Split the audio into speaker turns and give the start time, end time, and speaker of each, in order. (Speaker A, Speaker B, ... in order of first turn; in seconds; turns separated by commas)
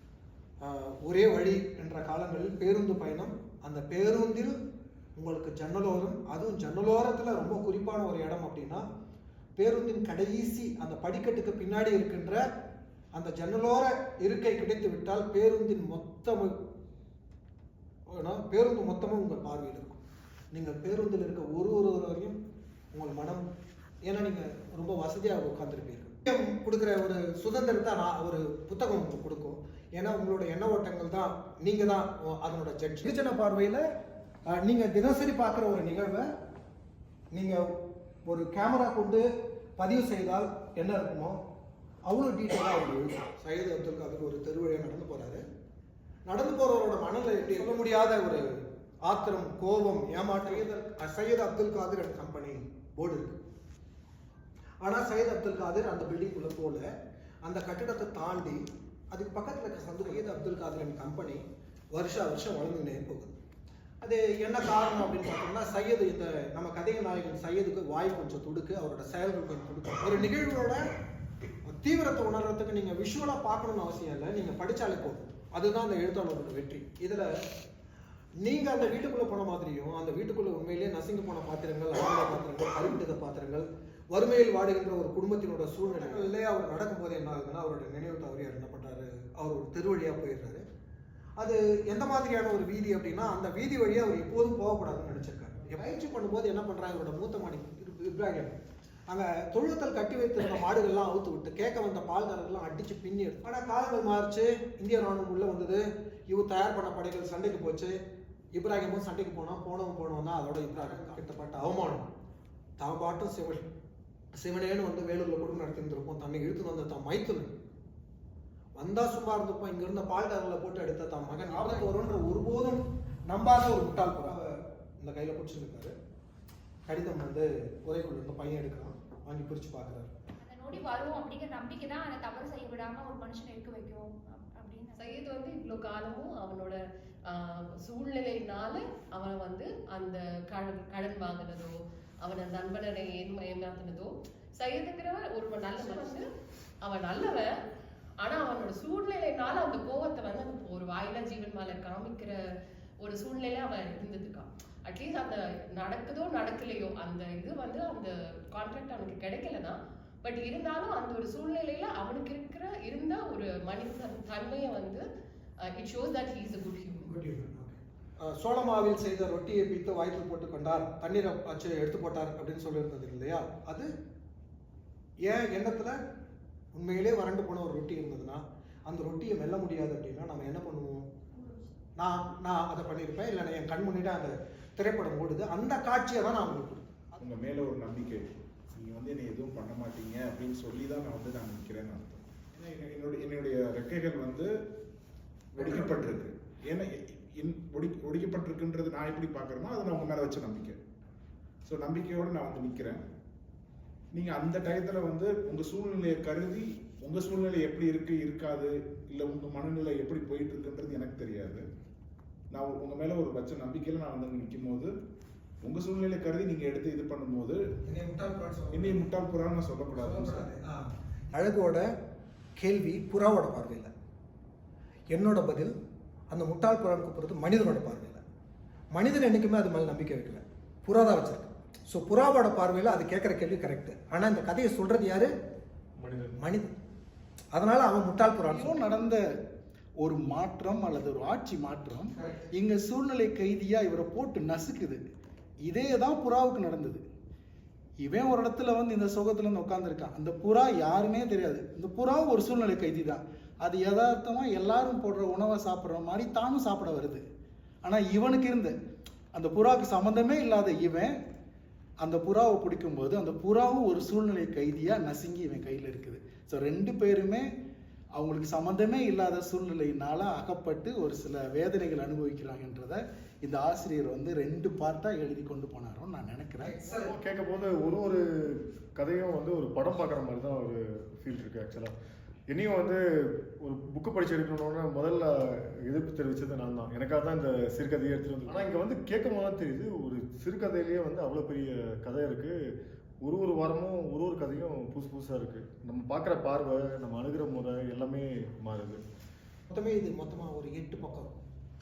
Speaker A: 0.6-4.5, Speaker A: 5.2-8.8, Speaker A: 9.6-12.4, Speaker A: 13.1-16.5, Speaker A: 18.1-20.0, Speaker A: 20.5-22.4, Speaker A: 22.9-23.4, Speaker A: 24.0-33.8, Speaker A: 34.5-36.2, Speaker A: 37.3-37.7, Speaker A: 38.2-39.2, Speaker A: 39.8-41.4, Speaker A: 42.0-45.4, Speaker A: 46.2-48.5, Speaker A: 49.0-53.4, Speaker A: 54.8-56.8, Speaker A: 57.4-63.4, Speaker A: 64.0-70.8, Speaker A: 71.6-77.3, Speaker A: 78.4-90.6, Speaker A: 91.4-98.6, Speaker A: 99.1-107.9, Speaker A: 108.5-112.0, Speaker A: 112.8-113.7, Speaker A: 114.3-117.5, Speaker A: 118.8-125.9, Speaker A: 126.8-130.1, Speaker B: 130.4-135.1, Speaker C: 134.9-146.2, Speaker C: 146.8-147.5, Speaker C: 148.2-152.3, Speaker C: 153.0-165.0, Speaker C: 165.6-167.1, Speaker A: 167.1-173.9, Speaker A: 175.2-175.9, Speaker A: 176.7-181.1, Speaker A: 182.0-186.9, Speaker D: 187.2-194.5, Speaker D: 195.5-200.8, Speaker D: 201.7-203.0, Speaker D: 204.1-211.6, Speaker D: 212.5-214.9, Speaker D: 215.6-217.6, Speaker A: 217.9-219.0, Speaker D: 218.7-220.5, Speaker A: 219.9-221.8, Speaker A: 222.6-223.9, Speaker A: 225.1-225.7, Speaker A: 226.3-228.2, Speaker A: 228.9-235.3, Speaker E: 236.0-236.4, Speaker A: 236.3-236.7, Speaker A: 237.5-238.8, Speaker F: 238.4-239.3, Speaker F: 240.0-245.0, Speaker F: 245.6-247.0, Speaker F: 248.0-257.2, Speaker F: 257.8-258.7, Speaker F: 259.3-261.2, Speaker F: 262.0-267.5, Speaker F: 268.1-276.8, Speaker A: 276.6-277.1, Speaker E: 276.9-281.9, Speaker E: 282.5-292.6, Speaker E: 293.2-299.0, Speaker A: 299.7-301.3